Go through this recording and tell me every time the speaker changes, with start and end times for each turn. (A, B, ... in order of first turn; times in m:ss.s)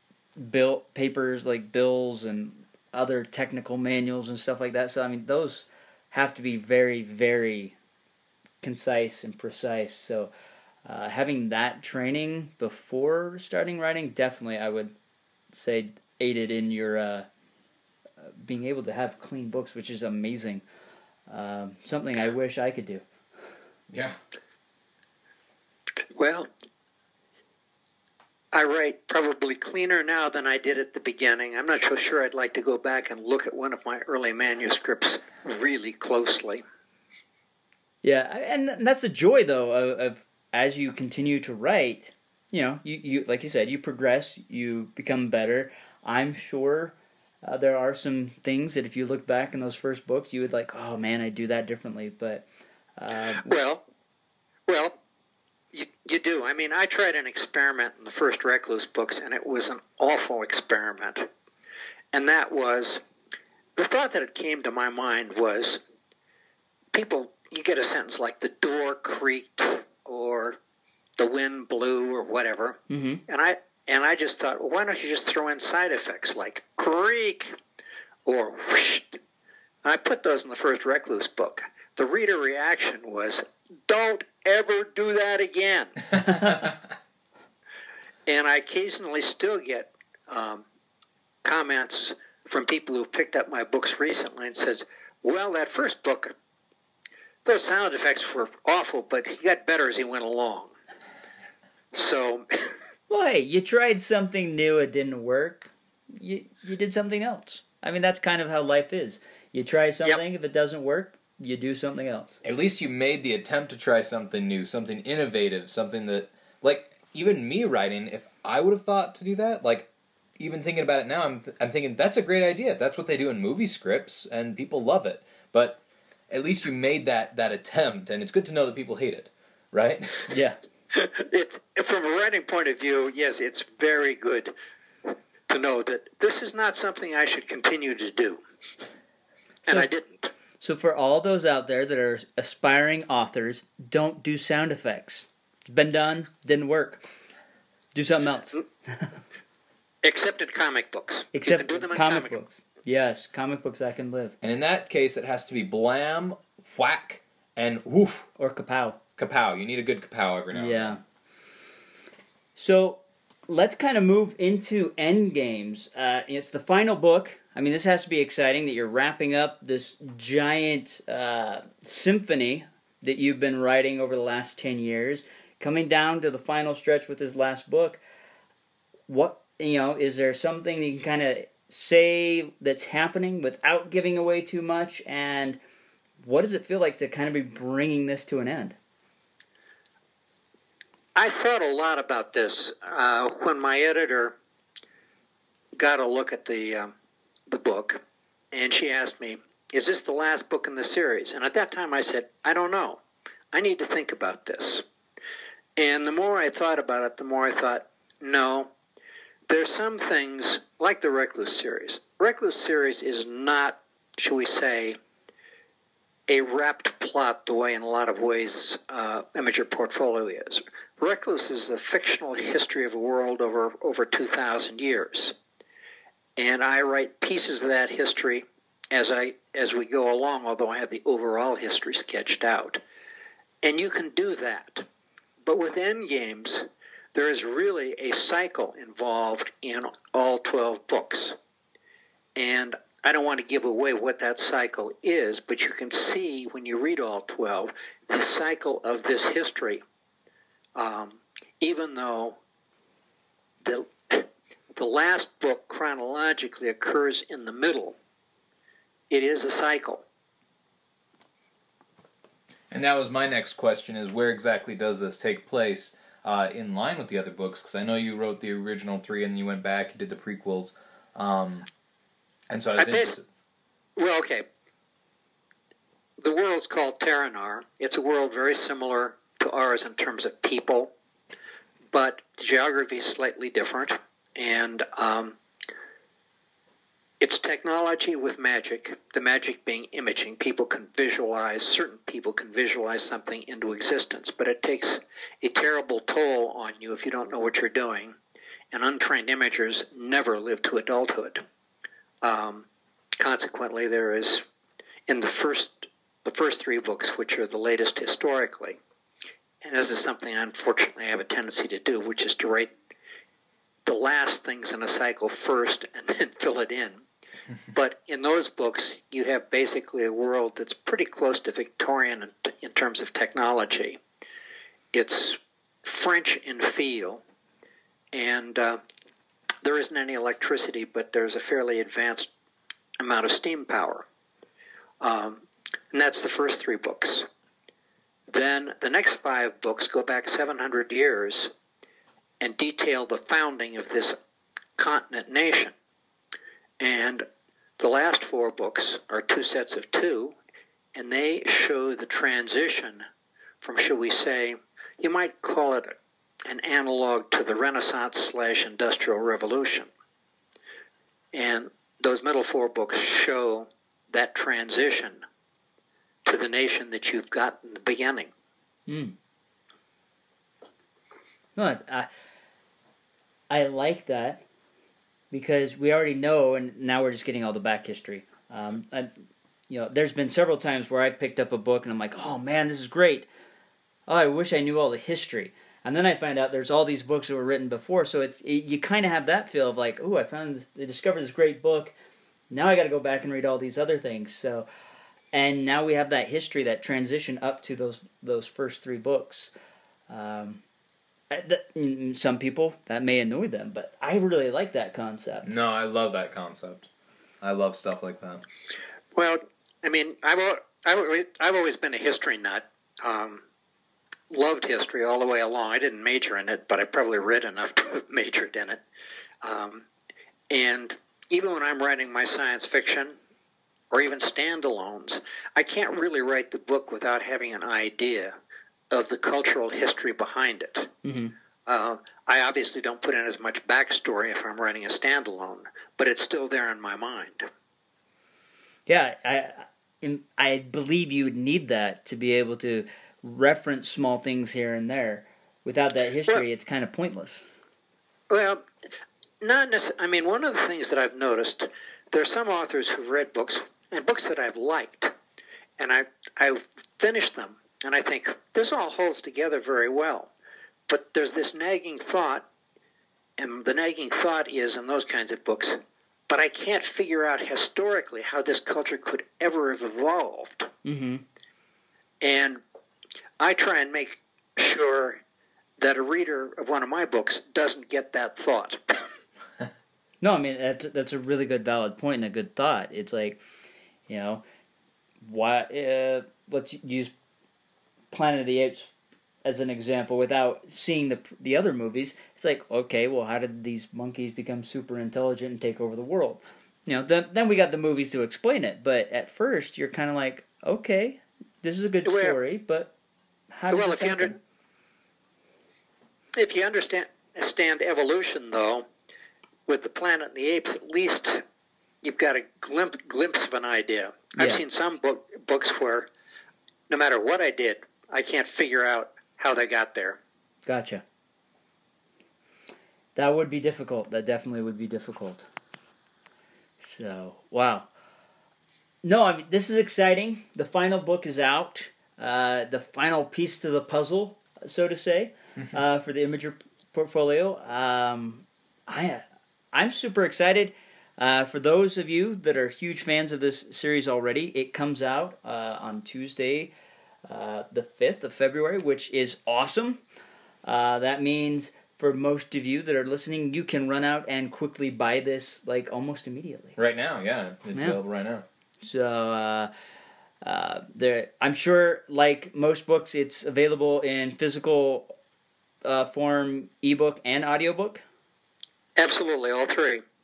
0:00.4-0:07.7 A
0:08.6-0:10.3 A
0:10.8-0:14.9 A
0:15.5-0:17.3 A
0:18.2-0:20.6 A
0:21.3-0:23.0 A
0:23.9-0:24.2 B
0:26.2-0:26.5 C
0:28.5-0:36.6 C
0:38.0-0:52.4 A
0:53.0-0:53.5 A
0:53.4-0:53.8 C
0:54.7-0:55.0 C
0:55.7-1:01.3 C
1:02.1-1:03.0 C
1:03.8-1:05.8 C
1:06.9-1:10.6 C
1:11.2-1:17.5 C
1:12.9-1:13.2 A
1:18.2-1:19.2 C
1:19.8-1:26.0 C
1:28.3-1:30.6 C
1:31.4-1:36.3 C
1:37.4-1:40.7 C
1:41.9-1:42.7 C
1:43.1-1:52.4 A
1:52.4-2:10.3 B
2:10.3-2:10.6 A
2:10.9-2:14.5 C
2:15.1-2:18.4 C
2:19.7-2:20.3 C
2:20.6-2:27.0 A
2:27.9-2:29.2 A
2:30.0-2:32.4 C
2:31.3-2:34.3 A
2:34.4-2:38.3 B
2:38.4-2:39.0 A
2:39.2-2:41.0 B
2:40.5-2:41.0 A
2:42.6-2:58.0 A
2:59.1-3:05.6 A
3:06.2-3:08.8 A
3:11.2-3:14.3 C
3:15.8-3:16.9 C
3:17.5-3:18.0 C
3:18.5-3:23.0 C
3:23.5-3:24.8 C
3:25.8-3:28.7 C
3:29.5-3:35.0 C
3:36.3-3:45.3 C
3:46.4-3:52.8 C
3:53.6-3:54.8 C
3:55.4-4:01.4 C
4:02.4-4:09.8 C
4:10.8-4:12.4 C
4:13.6-4:18.0 C
4:19.1-4:20.0 C
4:22.7-4:31.7 B
4:32.5-4:33.2 B
4:32.8-4:33.1 C
4:34.0-4:34.4 C
4:36.2-4:40.9 C
4:41.9-4:45.4 C
4:47.2-4:58.2 C
4:58.7-5:01.4 C
5:02.2-5:02.6 C
5:03.2-5:04.4 C
5:05.1-5:08.8 C
5:09.6-5:12.7 C
5:13.8-5:17.0 C
5:17.7-5:24.0 C
5:24.9-5:27.2 C
5:28.1-5:28.8 C
5:29.6-5:32.3 C
5:33.0-5:34.0 C
5:35.0-5:37.3 C
5:38.3-5:41.5 C
5:42.4-5:44.2 C
5:44.8-5:45.7 C
5:46.8-5:47.2 C
5:47.8-5:50.3 C
5:50.9-5:53.0 C
5:53.6-5:55.9 C
5:56.4-5:59.9 C
6:01.3-6:05.2 C
6:06.2-6:08.3 C
6:08.9-6:09.2 A
6:11.6-6:12.1 A
6:13.5-6:14.4 A
6:15.3-6:19.1 A
6:19.7-6:23.3 A
6:24.1-6:31.9 A
6:32.5-6:34.6 A
6:35.3-6:39.5 A
6:40.1-6:40.6 A
6:41.3-6:45.5 A
6:45.4-6:46.9 B
6:47.4-6:48.4 B
6:49.1-6:53.4 C
6:54.3-6:58.8 C
6:59.4-6:59.8 C
7:00.5-7:03.2 C
7:03.9-7:08.3 C
7:08.9-7:10.9 C
7:11.0-7:11.3 A
7:11.7-7:17.5 C
7:18.9-7:27.4 A
7:28.3-7:28.6 C
7:29.4-7:35.1 C
7:35.8-7:40.3 C
7:40.9-7:42.4 C
7:43.4-7:50.7 C
7:50.8-7:51.2 A
7:52.2-7:52.6 C
7:53.4-7:55.2 C
7:55.8-7:59.0 C
8:00.2-8:03.4 A
8:04.1-8:04.4 A
8:05.2-8:07.1 A
8:08.1-8:08.9 A
8:09.4-8:22.9 A
8:22.0-8:22.4 C
8:23.5-8:24.4 A
8:23.7-8:24.3 C
8:26.4-8:28.8 C
8:29.7-8:31.4 C
8:32.0-8:36.1 C
8:36.9-8:40.2 C
8:40.7-8:41.0 A
8:43.2-8:45.5 A
8:46.8-8:47.9 A
8:49.0-9:06.7 A
9:07.3-9:10.0 A
9:10.6-9:16.8 A
9:16.8-9:18.4 B
9:18.8-9:19.7 A
9:20.4-9:25.1 A
9:25.8-9:28.0 A
9:29.0-9:30.0 C